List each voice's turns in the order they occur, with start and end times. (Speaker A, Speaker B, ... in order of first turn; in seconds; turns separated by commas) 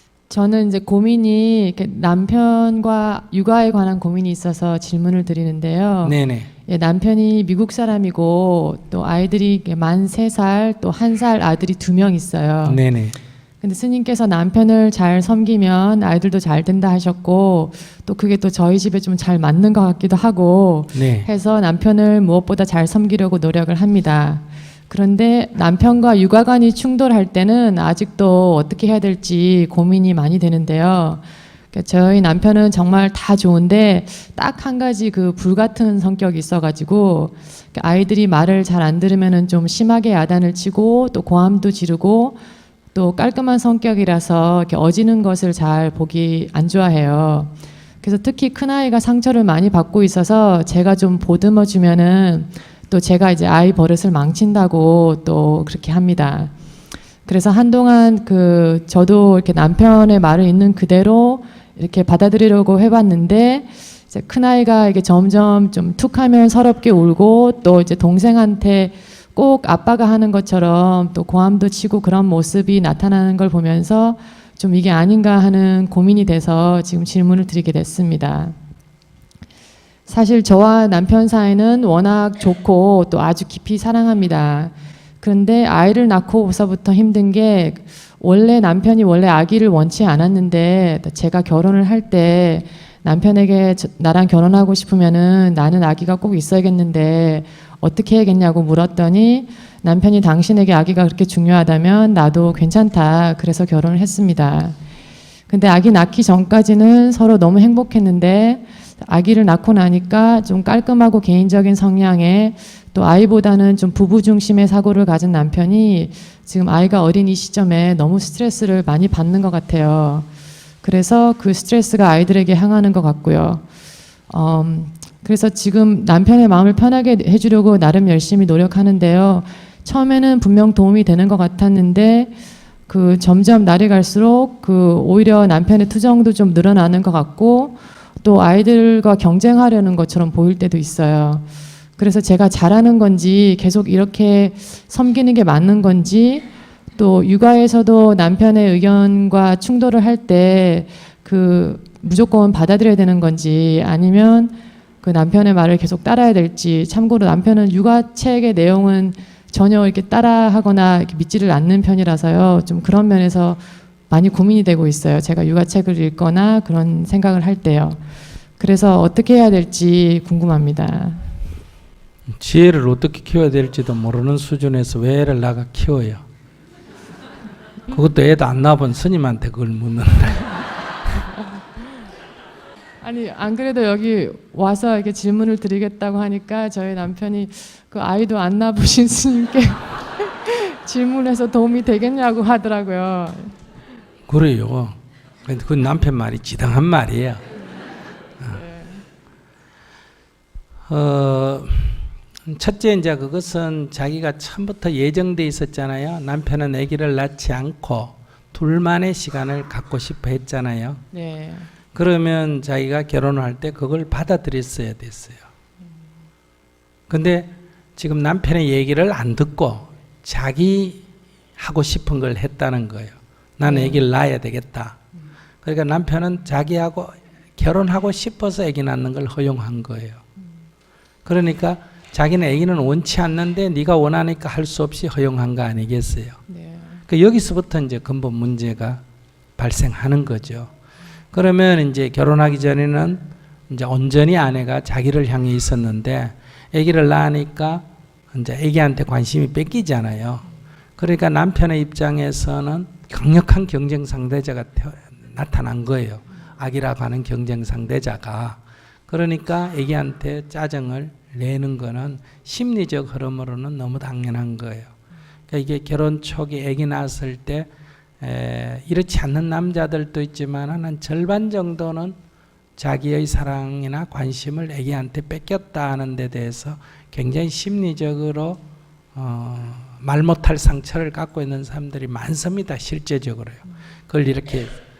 Speaker A: 0.3-6.2, Speaker B: 6.0-6.5, Speaker A: 6.7-12.8, Speaker B: 12.6-13.2, Speaker A: 13.6-42.4, Speaker B: 20.9-21.3, Speaker A: 42.9-56.5, Speaker A: 57.3-78.5, Speaker A: 80.1-104.8, Speaker A: 105.5-120.3, Speaker A: 120.8-123.6, Speaker A: 124.3-132.3, Speaker A: 132.9-168.0, Speaker A: 168.6-171.3, Speaker B: 172.3-176.2, Speaker B: 177.9-180.6, Speaker A: 183.0-193.6, Speaker B: 194.3-197.4, Speaker A: 198.5-199.0, Speaker B: 200.9-211.0, Speaker A: 211.1-211.7, Speaker B: 211.9-215.4, Speaker B: 217.1-221.0, Speaker B: 221.6-225.0, Speaker A: 223.6-224.1, Speaker B: 225.6-230.2, Speaker B: 231.2-236.4, Speaker A: 236.5-237.0, Speaker B: 237.1-239.0, Speaker B: 239.6-240.7, Speaker B: 241.3-250.4, Speaker B: 251.0-264.9, Speaker B: 265.5-267.7, Speaker B: 268.2-272.1, Speaker B: 272.8-278.6, Speaker B: 279.1-284.7